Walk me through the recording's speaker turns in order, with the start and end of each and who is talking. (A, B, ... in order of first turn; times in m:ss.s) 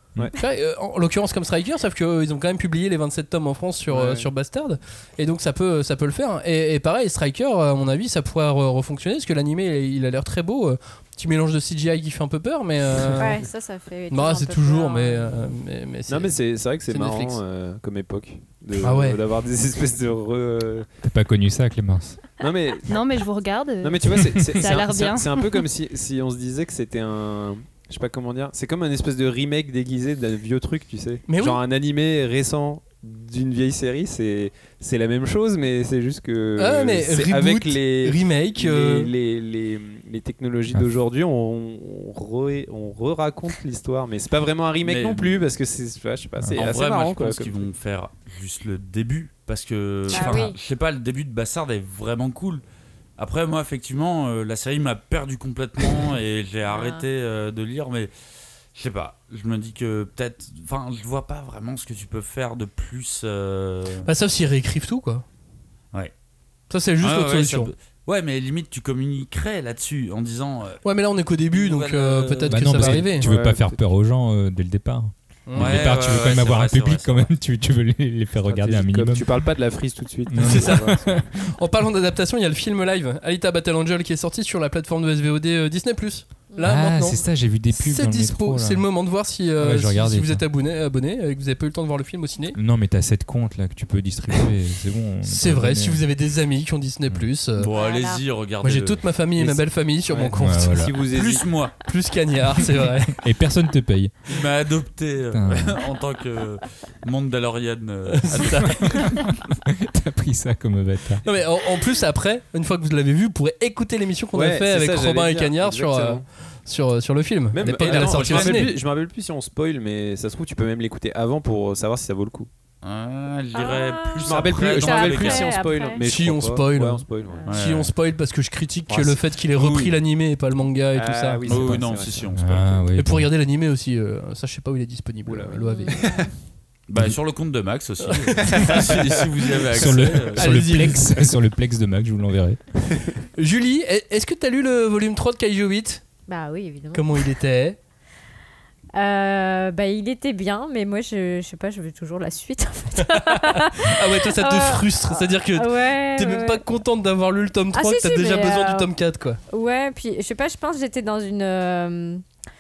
0:00.3-0:13.4 A
0:03.9-0:04.3 B
0:13.0-0:13.3 B
0:13.2-0:15.4 C
0:14.1-0:16.4 A
0:16.1-0:20.9 B
0:16.9-0:17.4 A
0:18.8-0:19.2 A
0:21.0-0:22.2 D
0:22.4-0:23.0 B
0:22.9-0:24.0 E
0:23.8-0:47.7 B
0:24.6-0:25.5 E
0:31.3-0:31.6 A
0:36.6-0:39.1 A
0:44.8-0:45.5 F
0:46.4-0:46.7 D
0:46.6-0:52.6 F
0:50.1-0:50.6 C
0:53.2-0:58.1 F
0:56.7-0:57.0 C
0:58.8-1:04.1 F
1:04.0-1:05.2 A
1:06.7-1:07.7 A
1:07.0-1:10.8 F
1:10.8-1:13.3 A
1:11.5-1:13.0 F
1:12.5-1:19.5 D
1:13.2-1:13.8 B
1:15.5-1:15.9 A
1:15.6-1:17.3 F
1:18.5-1:21.3 B
1:20.3-1:21.4 D
1:20.4-1:20.9 A
1:21.5-1:32.6 A
1:26.5-1:26.8 C
1:26.6-1:28.9 D
1:29.6-1:30.4 D
1:32.5-1:36.0 D
1:35.2-1:37.7 A
1:37.6-1:39.1 F
1:37.6-1:38.2 C
1:38.6-1:40.8 A
1:39.4-1:41.5 B
1:40.4-1:41.0 D
1:41.1-1:41.8 F
1:41.8-1:43.2 A
1:43.1-1:44.1 D
1:44.3-1:49.2 F
1:45.3-1:45.8 D
1:48.1-1:49.1 A
1:49.7-1:51.2 D
1:51.2-1:58.8 A
1:54.3-1:56.2 B
1:57.5-2:02.5 B
1:57.9-1:58.6 F
2:02.8-2:05.6 F
2:03.5-2:06.0 C
2:04.2-2:07.5 B
2:06.0-2:11.8 A
2:07.3-2:07.5 C
2:07.5-2:07.9 F
2:08.9-2:09.2 B
2:09.5-2:10.0 F
2:10.9-2:12.8 B
2:11.5-2:12.7 F
2:12.4-2:13.3 D
2:13.0-2:16.0 A
2:15.3-2:16.3 B
2:15.6-2:16.3 C
2:16.9-2:20.6 F
2:18.4-2:19.2 B
2:19.7-2:22.6 D
2:20.4-2:21.2 A
2:23.4-2:26.0 A
2:26.3-2:27.2 C
2:26.9-2:27.8 A
2:29.0-2:36.6 C
2:33.0-2:39.4 A
2:37.7-2:38.9 C
2:39.5-2:42.2 C